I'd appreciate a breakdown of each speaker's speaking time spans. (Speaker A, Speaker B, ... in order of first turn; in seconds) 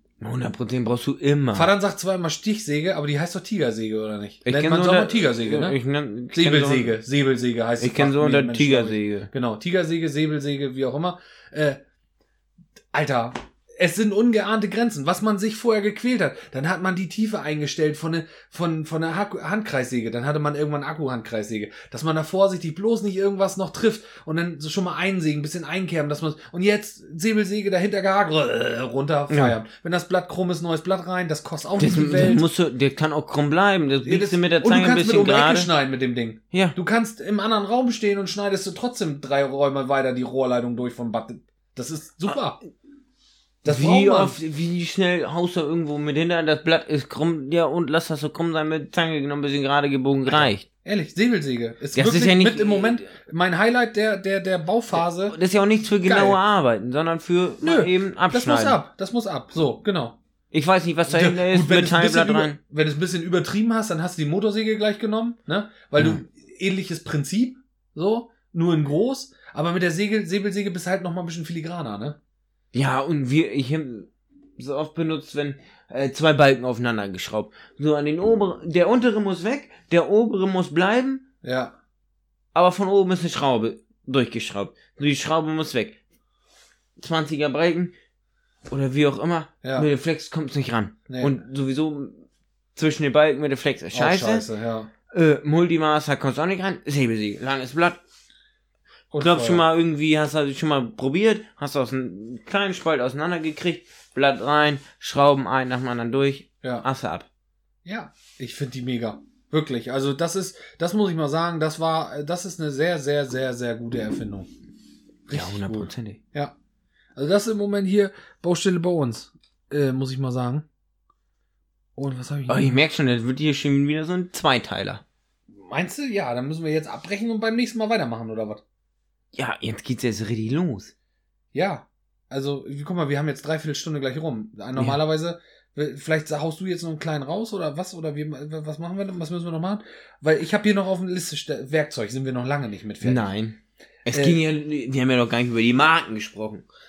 Speaker A: 0.2-1.7, 4.5-7.0, 7.8-9.3, 29.3-29.6, 31.8-35.7, 43.6-50.6, 51.9-53.1, 55.3-58.8, 60.5-62.6, 72.7-81.2, 82.5-86.0, 87.0-87.9, 88.7-92.2, 92.8-94.5, 95.1-98.0, 99.2-107.3, 115.3-116.2, 122.5-125.0, 129.3-130.9, 134.7-135.0, 143.0-146.7
Speaker B: 1.5-5.8, 6.3-11.8, 12.9-32.4, 34.0-42.6, 43.6-44.4, 50.3-56.4, 57.6-60.2, 61.1-72.2, 81.4-81.8, 89.6-89.9, 91.1-91.4, 93.9-94.9, 99.1-99.6, 107.8-114.5, 115.3-116.5, 117.2-120.7, 122.0-122.8, 125.5-128.6, 131.5-143.3, 144.1-144.4